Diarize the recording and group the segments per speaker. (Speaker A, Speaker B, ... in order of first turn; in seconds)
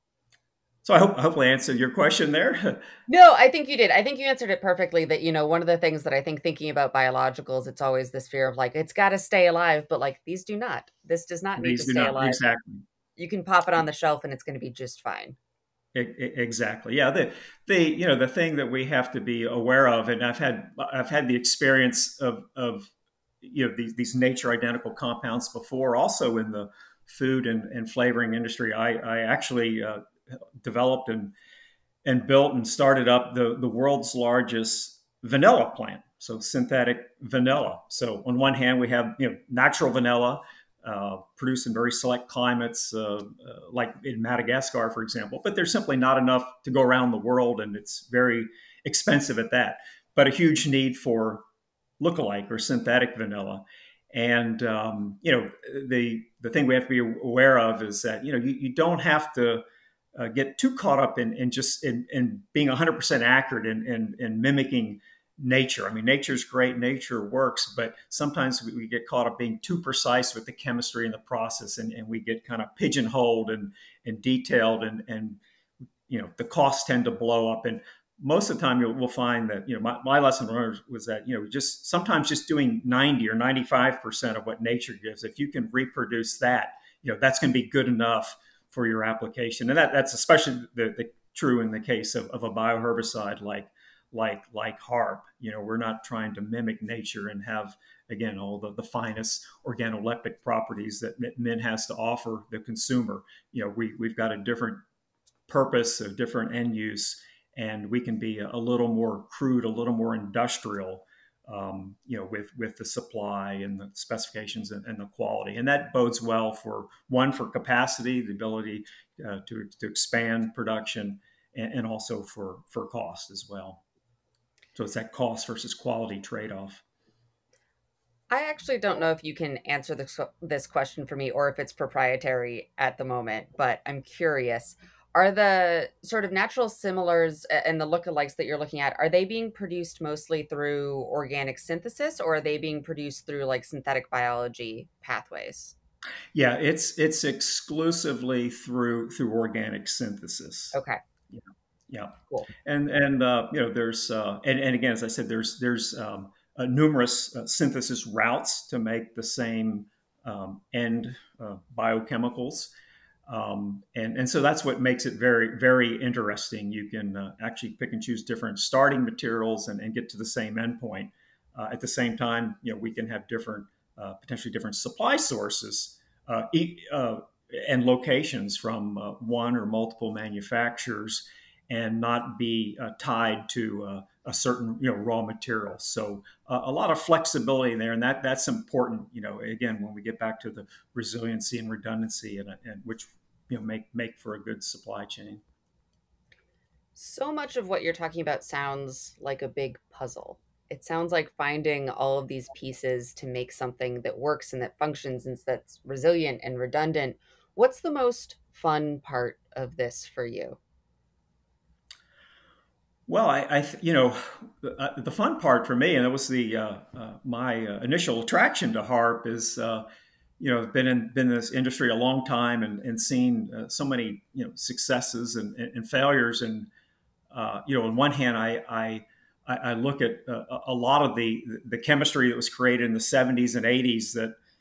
Speaker A: 0.8-2.9, 11.6-12.8, 15.9-30.0, 30.6-31.3, 32.0-51.4, 52.0-59.6, 60.1-75.4, 76.1-104.8, 105.5-123.8, 124.7-126.8, 146.3-150.8, 151.3-162.7, 163.3-195.4, 213.1-219.8, 220.4-226.7, 227.3-234.3
Speaker B: 3.1-12.4, 13.2-15.4, 128.3-145.7, 150.7-151.0, 196.9-210.6